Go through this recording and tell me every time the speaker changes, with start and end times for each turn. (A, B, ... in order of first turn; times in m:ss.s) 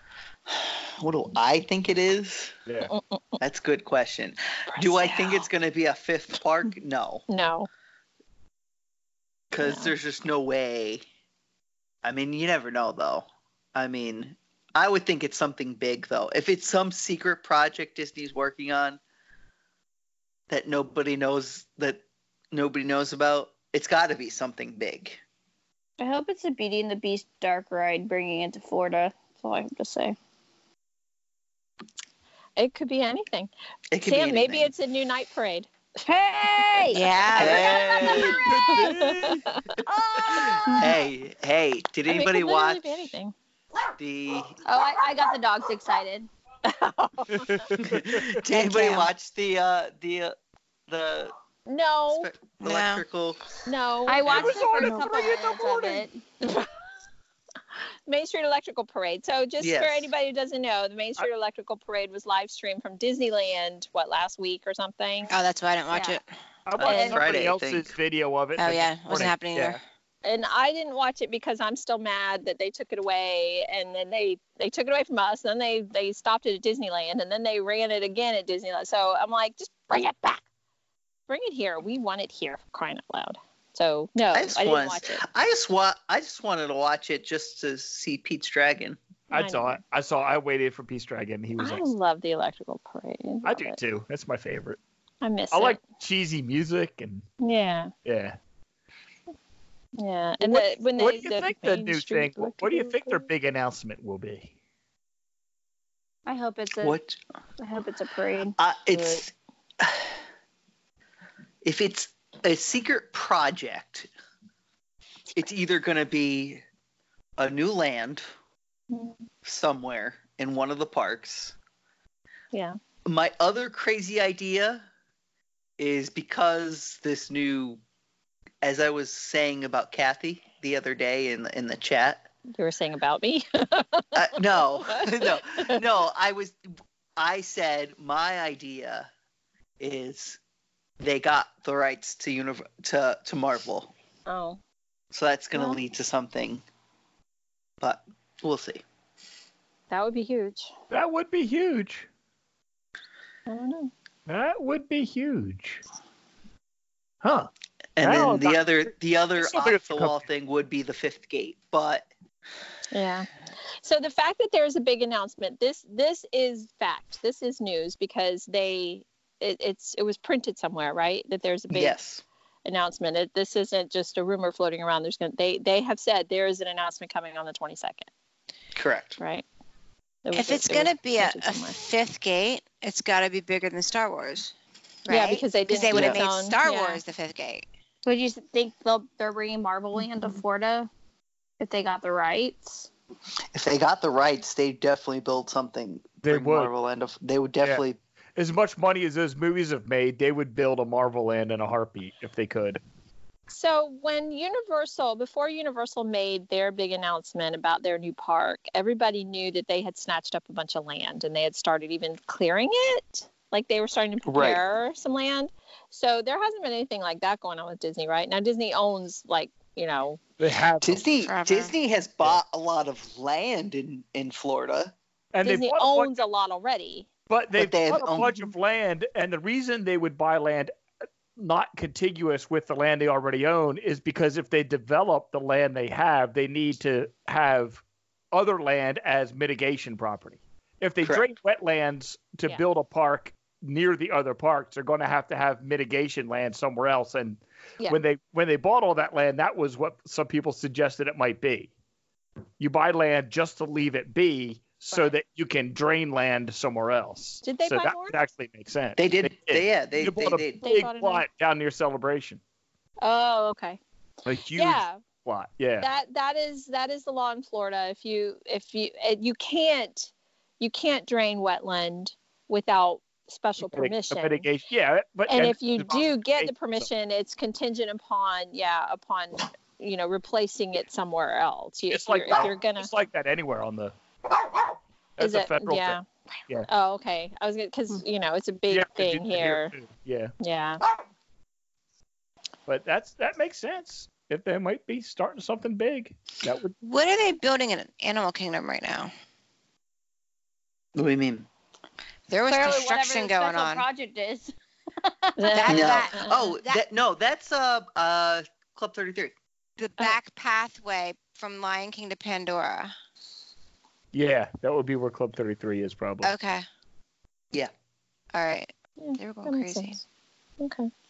0:00.5-0:02.6 A
0:02.7-0:02.9 B
0:02.9-0:03.4 C
0:03.4-0:07.2 A
0:04.7-0:05.5 C
0:07.3-0:07.7 C
0:09.5-0:11.0 A
0:09.6-0:09.9 C
0:12.0-0:19.0 A
0:20.5-0:25.2 A
0:26.0-0:30.2 D
0:32.6-0:33.5 C
0:33.9-0:34.7 A
0:34.0-0:35.7 C
0:36.0-0:38.5 D
0:36.9-0:37.9 E
0:37.3-0:38.4 A
0:37.5-0:39.7 C
0:38.3-0:39.5 B
0:39.8-0:41.0 D
0:40.2-0:42.9 A
0:42.0-0:43.4 C
0:44.0-0:44.6 A
0:44.6-0:46.3 D
0:46.6-0:47.7 C
0:47.3-0:48.4 B
0:47.8-0:50.4 A
0:48.5-0:49.1 E
0:50.9-0:51.3 A
0:51.7-0:52.3 C
0:52.1-0:53.5 A
0:52.6-0:53.0 E
0:53.7-0:55.0 C
0:54.1-0:56.2 D
0:54.2-0:56.0 B
0:56.4-0:56.7 C
0:58.1-1:05.3 C
0:59.6-1:00.1 A
1:05.3-1:06.3 E
1:05.9-1:06.2 D
1:06.7-1:09.8 B
1:06.8-1:08.0 A
1:06.8-1:07.3 C
1:08.6-1:09.8 E
1:10.2-1:20.4 C
1:21.3-1:25.2 C
1:24.3-1:29.0 A
1:29.3-1:31.9 B
1:29.3-1:29.8 C
1:31.6-1:33.8 C
1:33.4-1:34.8 B
1:35.2-1:35.8 C
1:35.5-1:37.2 B
1:37.4-1:37.9 C
1:38.1-1:38.4 B
1:40.0-1:43.3 C
1:40.4-1:44.5 B
1:46.3-1:47.0 D
1:46.8-1:47.2 A
1:47.6-1:48.6 D
1:48.6-1:50.2 A
1:51.6-1:54.1 A
1:55.3-1:56.6 A
1:57.4-1:58.3 A
1:58.9-1:59.2 C
1:59.4-2:01.6 A
2:02.5-2:02.8 C
2:03.0-2:04.8 A
2:05.8-2:07.8 A
2:08.6-2:12.3 A
2:12.5-2:15.8 C
2:14.1-2:16.6 A
2:17.2-2:19.1 A
2:19.8-2:20.4 A
2:21.0-2:23.9 A
2:24.3-2:24.6 C
2:25.1-2:26.6 A
2:25.5-2:25.8 C
2:27.8-2:28.8 A
2:29.9-2:30.7 C
2:30.9-2:32.1 B
2:33.5-2:33.9 C
2:34.3-2:35.8 B
2:37.2-2:37.5 B
2:38.0-2:42.1 A
2:38.0-2:40.2 B
2:42.9-2:43.3 C
2:43.8-2:52.0 C
2:51.7-2:52.2 A
2:52.6-2:58.1 C
2:58.8-2:59.2 A
2:59.2-2:59.4 C
3:00.2-3:01.8 C
3:00.3-3:04.5 E
3:05.1-3:07.6 E
3:05.1-3:07.0 C
3:05.9-3:06.2 A
3:08.0-3:10.9 D
3:11.6-3:12.9 D
3:13.5-3:18.0 A
3:16.2-3:16.7 B
3:18.4-3:22.8 B
3:23.5-3:40.2 C
3:34.3-3:34.6 A
3:40.4-3:41.0 B
3:40.8-3:44.9 A
3:41.2-3:41.7 E
3:45.3-3:46.2 B
3:45.4-3:47.1 C
3:47.3-3:50.7 B
3:47.5-3:48.5 A
3:51.4-4:11.7 B
4:01.0-4:01.3 A
4:12.6-4:22.4 B
4:17.4-4:18.2 C
4:19.0-4:20.6 A
4:20.6-4:21.2 C
4:23.0-4:23.8 C
4:24.3-4:25.9 B
4:24.5-4:25.0 C
4:25.8-4:34.5 C
4:33.7-4:36.9 B
4:35.3-4:42.9 C
4:41.9-4:43.9 B
4:45.2-4:46.7 B
4:45.2-4:46.0 C
4:46.7-4:49.7 C
4:48.7-4:50.3 B
4:50.4-4:50.8 C
4:52.7-4:56.8 B
4:56.8-4:59.1 E
5:01.0-5:01.5 A
5:02.3-5:03.9 E
5:02.5-5:05.6 D
5:05.4-5:06.4 C
5:05.5-5:06.8 E
5:05.7-5:09.4 A
5:09.8-5:12.9 E
5:14.1-5:16.3 B
5:16.2-5:16.7 E
5:18.3-5:20.0 E
5:19.0-5:20.0 C
5:20.6-5:20.9 C